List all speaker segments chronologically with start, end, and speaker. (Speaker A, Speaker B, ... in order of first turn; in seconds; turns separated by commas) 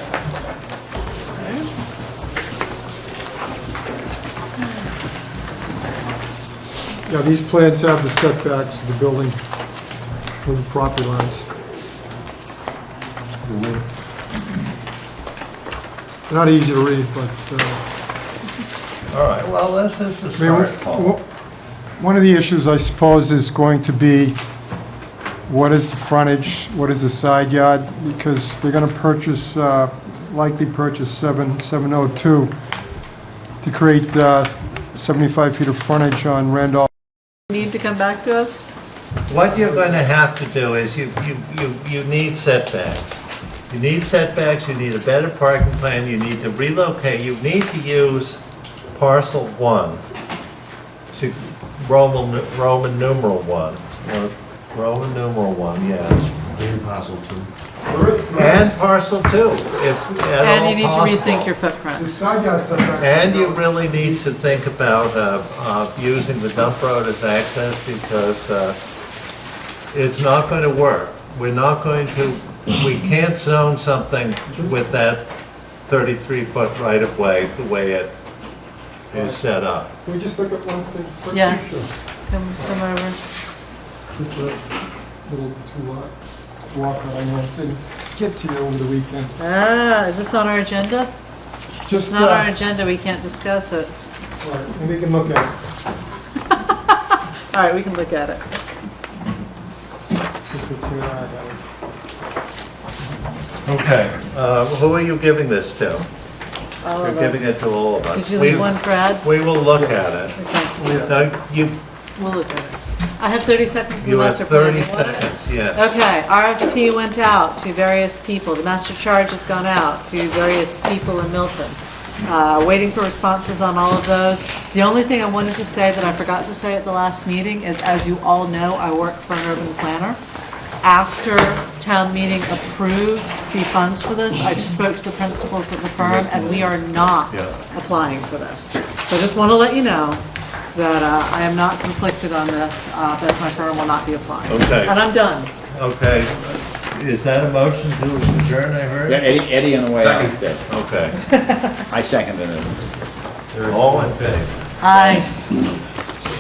Speaker A: 1.4-1.7, Speaker B: 7.1-9.4, Speaker B: 10.4-11.5, Speaker B: 13.5-13.8, Speaker B: 16.3-17.8, Speaker C: 19.1-21.1, Speaker B: 20.4-21.2, Speaker B: 22.0-24.4, Speaker B: 25.5-32.5, Speaker B: 33.6-36.9, Speaker A: 37.5-38.7, Speaker C: 39.3-43.1, Speaker C: 43.7-48.4, Speaker C: 48.9-50.0, Speaker C: 51.1-56.5, Speaker D: 56.5-57.5, Speaker B: 57.9-58.7, Speaker C: 58.3-61.5, Speaker A: 60.4-62.1, Speaker B: 62.0-64.6, Speaker C: 63.0-68.8, Speaker C: 69.9-75.3, Speaker B: 74.5-74.8, Speaker C: 75.9-78.1, Speaker C: 79.1-79.9, Speaker B: 79.1-79.4, Speaker B: 80.0-81.9, Speaker A: 81.3-83.2, Speaker B: 84.2-84.7, Speaker B: 85.2-86.2, Speaker B: 86.7-89.3, Speaker A: 89.4-91.1, Speaker B: 91.8-92.5, Speaker A: 92.1-93.9, Speaker B: 94.4-95.5, Speaker A: 96.6-98.5, Speaker B: 100.5-101.6, Speaker C: 103.7-106.1, Speaker A: 106.8-107.5, Speaker C: 107.0-110.4, Speaker A: 108.1-109.3, Speaker A: 110.3-111.0, Speaker B: 110.8-111.2, Speaker C: 111.0-111.8, Speaker A: 112.2-130.2, Speaker C: 114.0-115.8, Speaker A: 130.8-145.5, Speaker C: 136.0-136.7, Speaker C: 137.3-137.6, Speaker C: 144.5-145.0, Speaker C: 145.7-149.3, Speaker E: 149.1-150.6, Speaker D: 150.0-150.6, Speaker C: 150.7-151.2, Speaker A: 151.3-151.7, Speaker E: 151.9-152.8, Speaker D: 153.5-154.5, Speaker C: 153.7-154.5, Speaker A: 154.8-155.4, Speaker E: 154.9-155.2